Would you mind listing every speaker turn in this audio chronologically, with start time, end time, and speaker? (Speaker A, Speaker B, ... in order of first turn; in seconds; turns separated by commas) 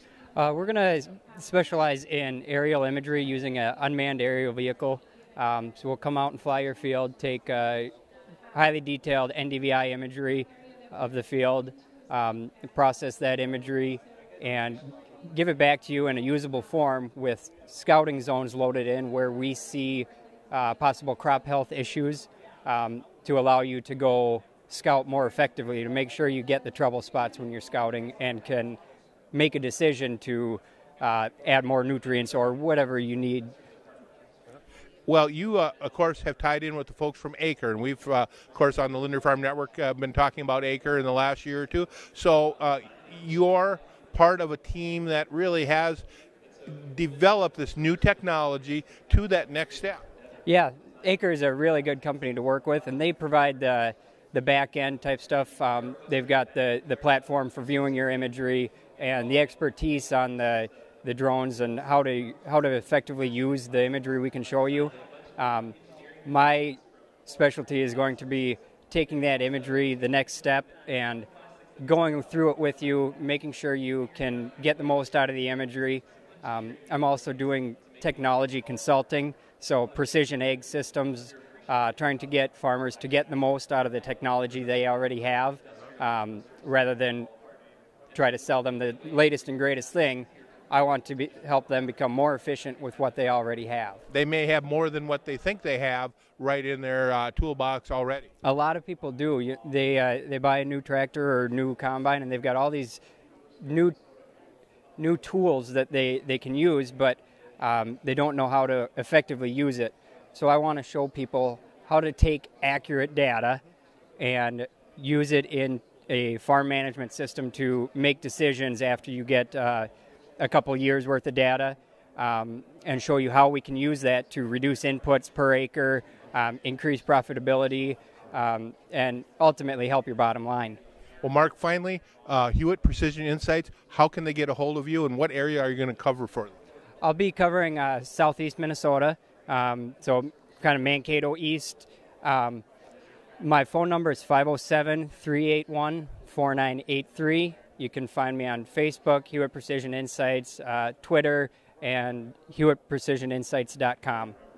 Speaker A: 0.3-7.9, Speaker A: 8.5-28.8, Speaker A: 29.3-33.5, Speaker B: 35.1-46.0, Speaker B: 46.6-50.0, Speaker A: 50.5-71.3, Speaker A: 71.8-87.3, Speaker A: 88.1-94.0, Speaker B: 94.1-98.3, Speaker A: 98.4-103.0, Speaker A: 103.6-104.0, Speaker A: 105.0-113.6, Speaker A: 114.2-130.8, Speaker B: 131.2-136.6, Speaker A: 137.0-142.6, Speaker A: 143.4-154.3